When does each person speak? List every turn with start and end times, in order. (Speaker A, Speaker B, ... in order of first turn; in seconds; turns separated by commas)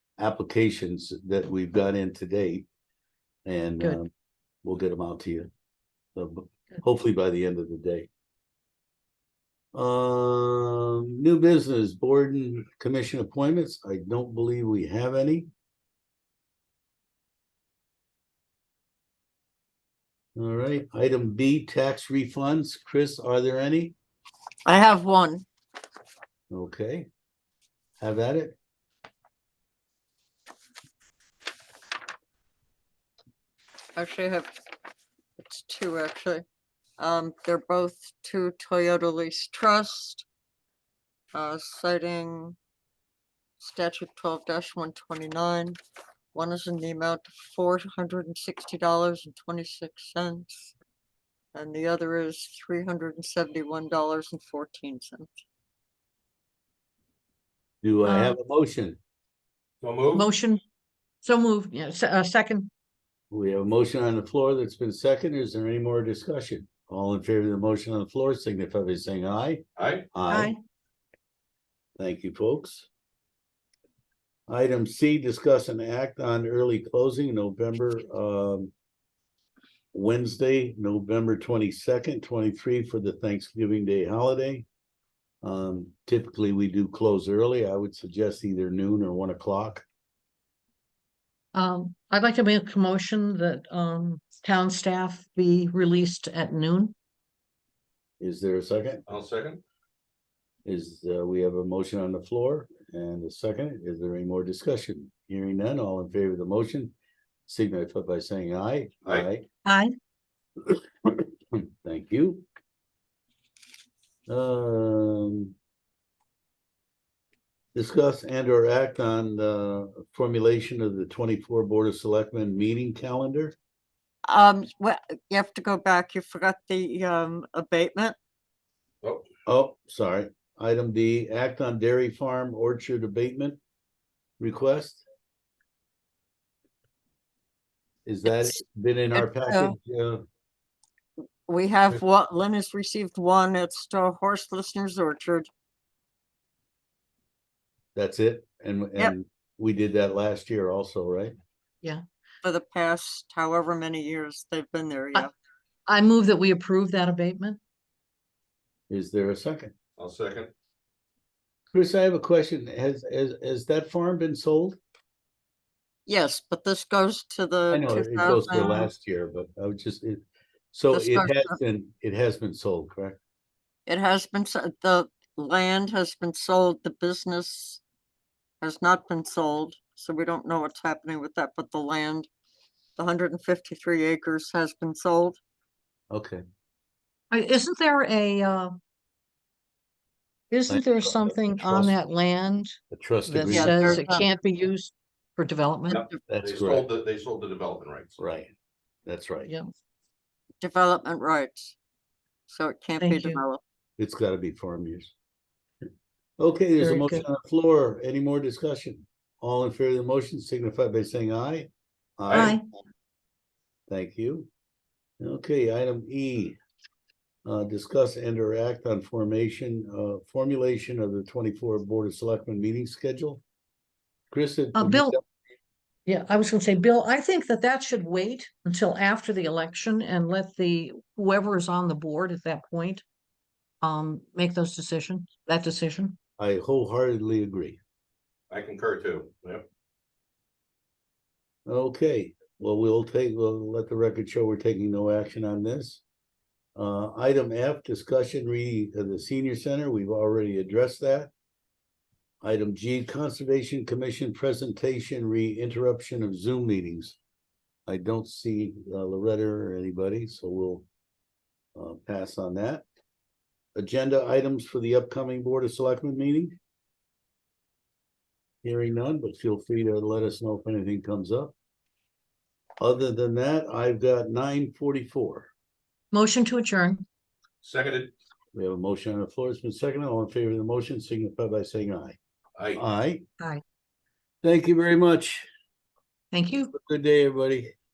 Speaker A: 0.2-2.7, Speaker A: 3.5-4.1, Speaker A: 4.6-5.5, Speaker A: 6.2-8.1, Speaker A: 9.7-15.5, Speaker A: 20.4-23.9, Speaker B: 24.7-25.5, Speaker A: 26.5-27.1, Speaker A: 28.0-28.6, Speaker B: 34.0-34.5, Speaker B: 35.4-36.5, Speaker B: 37.0-40.3, Speaker B: 41.3-42.6, Speaker B: 43.6-45.8, Speaker B: 46.3-50.8, Speaker B: 51.5-55.4, Speaker A: 57.8-59.0, Speaker C: 58.0-58.4, Speaker D: 59.8-60.3, Speaker C: 60.1-60.6, Speaker C: 61.2-62.7, Speaker A: 63.3-70.5, Speaker D: 69.8-70.1, Speaker C: 70.3-70.6, Speaker A: 72.0-72.9, Speaker A: 74.5-78.7, Speaker A: 79.9-84.7, Speaker A: 85.4-89.8, Speaker C: 91.5-97.0, Speaker A: 98.2-99.1, Speaker D: 99.1-99.6, Speaker A: 100.7-106.9, Speaker A: 107.5-109.5, Speaker C: 109.7-110.0, Speaker A: 110.7-112.5, Speaker A: 114.3-115.5, Speaker A: 117.8-123.6, Speaker B: 124.3-128.2, Speaker A: 129.5-133.6, Speaker A: 134.4-135.0, Speaker A: 138.1-140.2, Speaker B: 139.1-139.8, Speaker B: 141.5-145.5, Speaker A: 147.9-151.3, Speaker B: 152.4-155.3, Speaker C: 155.9-157.6, Speaker A: 158.9-159.7, Speaker D: 160.0-160.5, Speaker A: 161.7-164.8, Speaker B: 166.1-168.9, Speaker A: 167.7-173.2, Speaker B: 170.9-171.6, Speaker B: 173.9-177.8, Speaker B: 178.6-182.3, Speaker B: 183.0-185.4, Speaker A: 186.1-186.4, Speaker C: 187.3-188.8, Speaker C: 190.5-196.0, Speaker A: 190.7-192.0, Speaker A: 192.9-194.1, Speaker B: 193.5-194.3, Speaker B: 195.9-196.2, Speaker D: 195.9-198.2, Speaker A: 196.3-196.9, Speaker A: 198.2-198.5, Speaker A: 199.1-199.5, Speaker C: 199.4-199.7, Speaker B: 200.6-201.8, Speaker B: 202.5-203.6, Speaker C: 203.0-203.4, Speaker A: 204.0-205.1, Speaker A: 206.4-212.6, Speaker C: 206.8-207.2, Speaker D: 212.3-212.6, Speaker C: 212.3-212.6, Speaker A: 213.9-214.5, Speaker A: 215.2-216.6, Speaker A: 217.4-223.4, Speaker A: 224.3-225.2, Speaker C: 224.8-225.2, Speaker C: 226.1-233.0, Speaker C: 233.8-236.2, Speaker A: 236.4-237.8, Speaker D: 238.5-239.7, Speaker A: 241.7-246.0, Speaker A: 246.8-251.3, Speaker A: 252.4-257.2, Speaker A: 257.9-260.9, Speaker A: 261.8-262.9, Speaker A: 263.8-266.6, Speaker A: 268.6-271.5, Speaker A: 272.8-275.5, Speaker C: 276.1-277.1, Speaker D: 277.6-278.1, Speaker A: 278.5-282.2, Speaker A: 282.8-283.2, Speaker A: 284.4-285.5, Speaker C: 286.3-286.7, Speaker A: 286.7-287.8